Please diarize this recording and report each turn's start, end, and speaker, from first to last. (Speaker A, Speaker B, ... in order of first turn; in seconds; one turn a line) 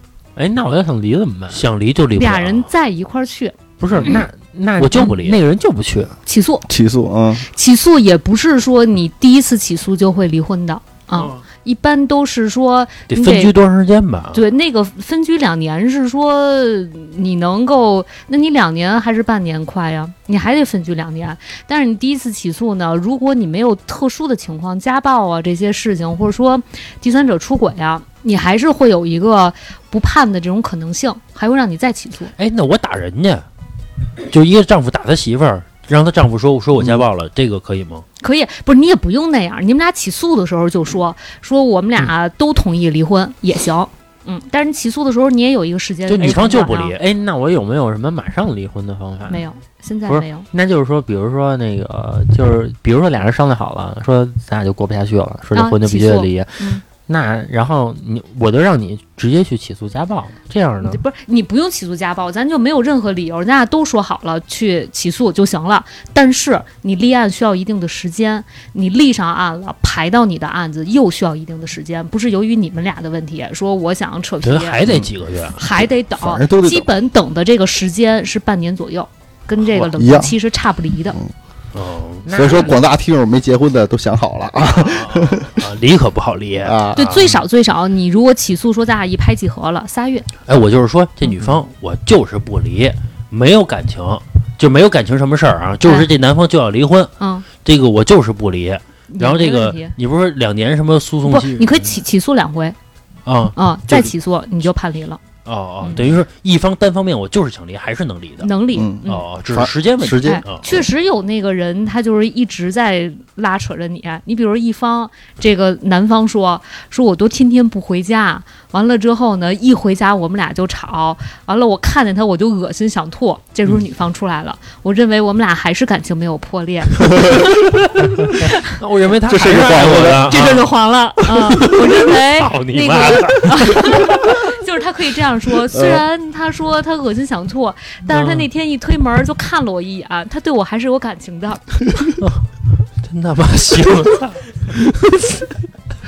Speaker A: 0.3-1.6
Speaker B: 1.5-2.7
Speaker C: 2.2-3.6
Speaker A: 3.8-6.2
Speaker B: 4.0-4.2
Speaker B: 4.8-5.4
Speaker C: 6.2-6.7
Speaker D: 6.7-7.5
Speaker C: 7.4-13.5
Speaker B: 11.1-11.4
Speaker B: 13.1-14.4
Speaker C: 14.3-32.3
Speaker B: 32.4-33.4
Speaker B: 34.2-38.0
Speaker C: 38.2-46.9
Speaker B: 46.1-47.0
Speaker A: 46.9-49.4
Speaker C: 49.3-50.5
Speaker A: 50.1-61.0
Speaker C: 55.5-56.8
Speaker C: 60.9-74.8
Speaker B: 74.4-75.7
Speaker C: 75.6-81.2
Speaker D: 76.2-76.9
Speaker D: 79.7-80.3
Speaker B: 81.7-82.2
Speaker A: 82.2-82.8
Speaker D: 82.3-85.6
Speaker B: 84.6-87.4
Speaker D: 86.6-87.2
Speaker C: 87.0-90.3
Speaker B: 90.5-102.0
Speaker C: 97.2-97.4
Speaker C: 99.1-99.9
Speaker C: 101.3-102.8
Speaker B: 103.2-104.1
Speaker C: 103.5-105.2
Speaker B: 105.5-108.5
Speaker C: 105.8-106.1
Speaker C: 108.4-109.2
Speaker D: 108.7-110.5
Speaker B: 109.0-110.8
Speaker C: 110.1-128.6
Speaker B: 128.8-130.7
Speaker D: 129.3-130.6
Speaker C: 130.3-141.9
Speaker B: 131.3-134.5
Speaker D: 135.7-136.0
Speaker B: 138.1-138.5
Speaker B: 142.2-142.4
Speaker B: 143.0-145.6